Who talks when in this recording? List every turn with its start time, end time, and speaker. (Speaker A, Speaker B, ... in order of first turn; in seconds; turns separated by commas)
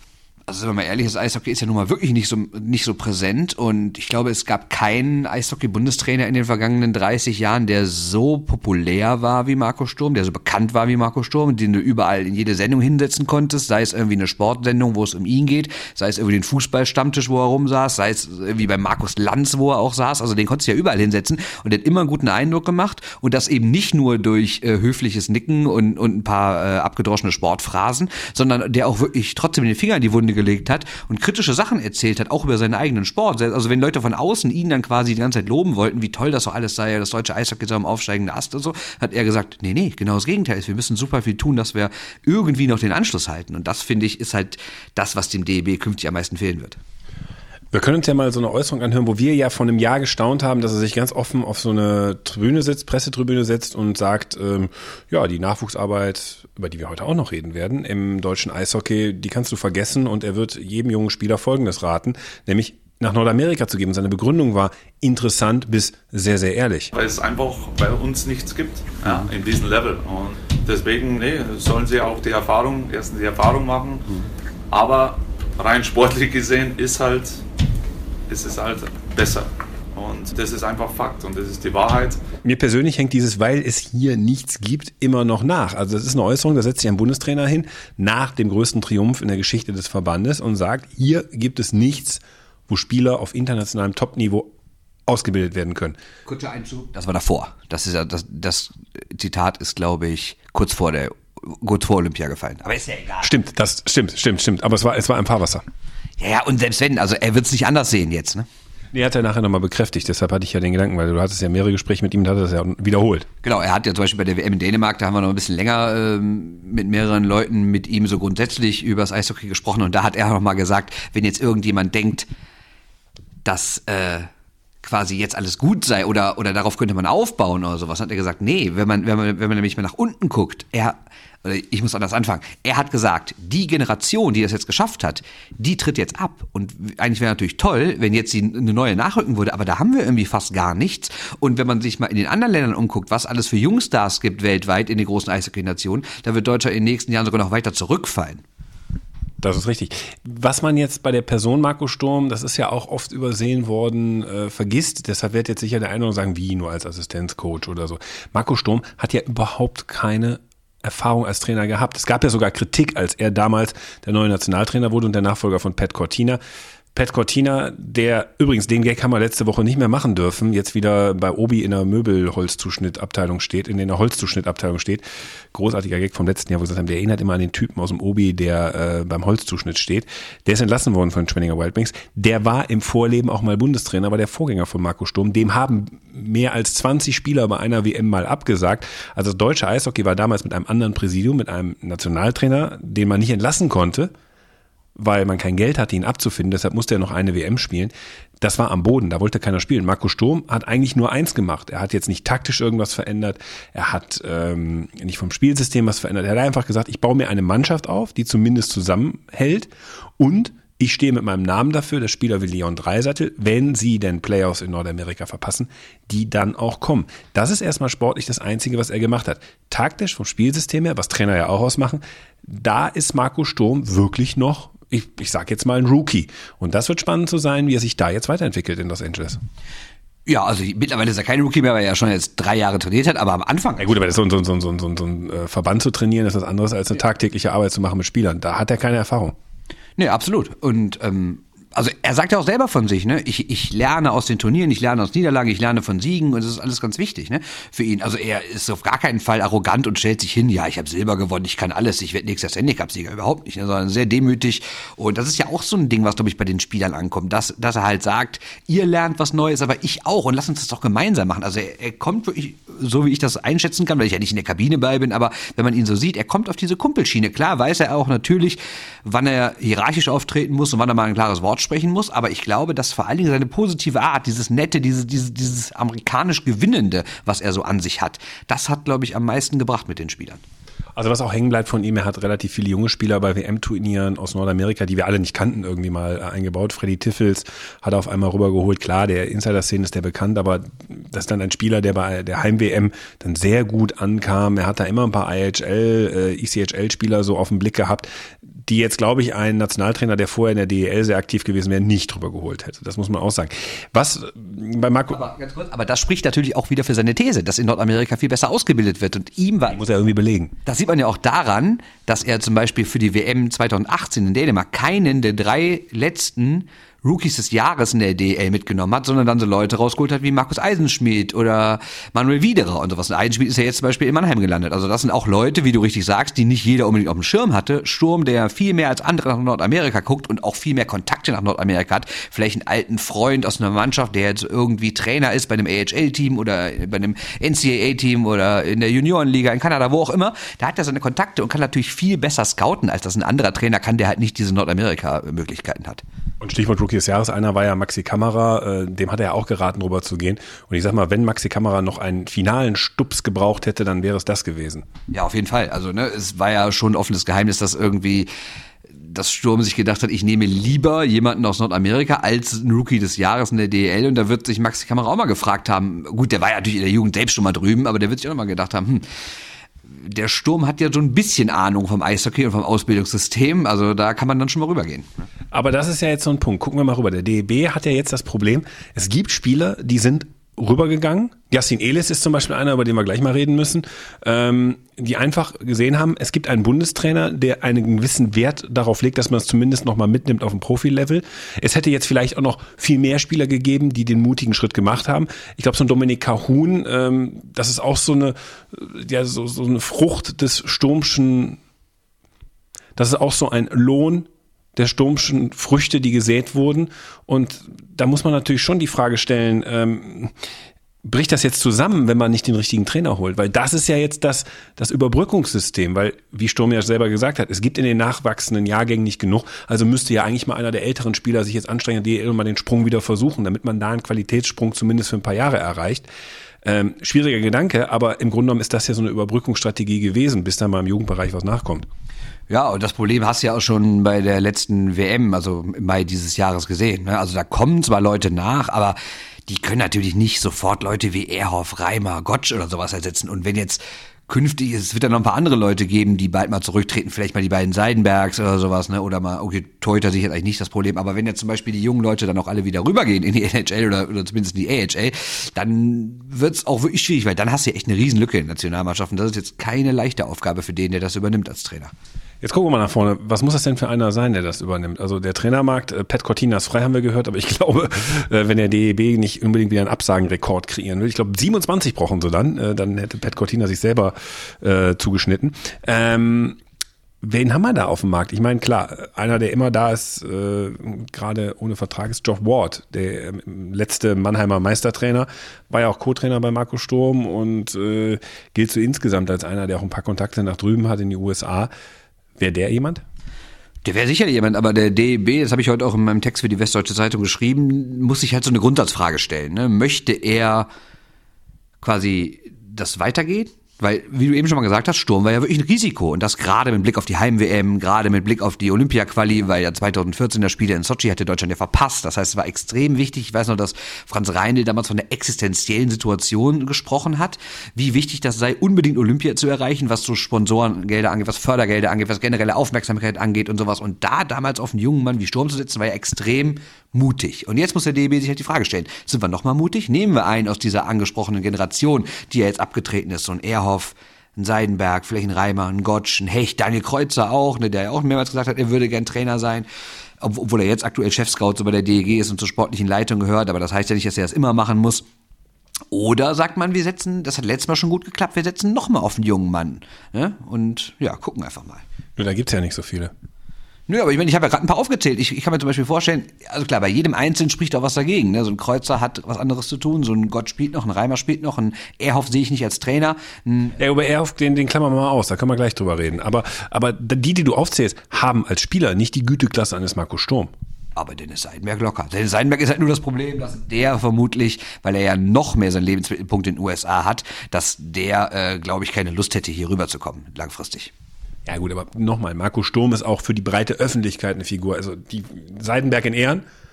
Speaker A: 0.5-46.8, Speaker B: 47.7-66.9, Speaker C: 66.9-74.1, Speaker C: 74.7-77.4, Speaker C: 78.3-82.2, Speaker B: 82.4-94.5, Speaker B: 95.1-96.0, Speaker A: 96.2-103.3, Speaker B: 103.2-105.6, Speaker A: 106.2-108.5, Speaker B: 108.9-113.3, Speaker A: 113.4-122.3, Speaker A: 123.5-124.3, Speaker A: 124.8-148.4, Speaker B: 149.4-166.4, Speaker B: 166.9-194.1, Speaker B: 195.0-229.4, Speaker A: 230.3-233.9, Speaker B: 233.8-239.4, Speaker A: 240.0-280.4, Speaker B: 280.9-298.1, Speaker B: 298.6-305.2, Speaker A: 305.1-309.8, Speaker B: 309.7-310.5, Speaker A: 310.6-346.0, Speaker B: 346.4-354.9, Speaker A: 355.1-358.3, Speaker A: 358.9-369.1, Speaker A: 369.9-375.1, Speaker B: 375.5-401.6, Speaker B: 403.0-410.3, Speaker B: 411.0-426.1, Speaker B: 426.6-431.9, Speaker A: 432.5-461.9, Speaker B: 462.4-476.6, Speaker B: 477.2-491.7, Speaker B: 492.4-493.0, Speaker A: 493.8-500.7, Speaker A: 501.8-539.7, Speaker A: 540.2-545.0, Speaker A: 545.9-551.8, Speaker B: 552.2-553.1, Speaker A: 553.9-563.8, Speaker B: 563.8-570.5, Speaker A: 571.0-580.9, Speaker B: 581.5-586.4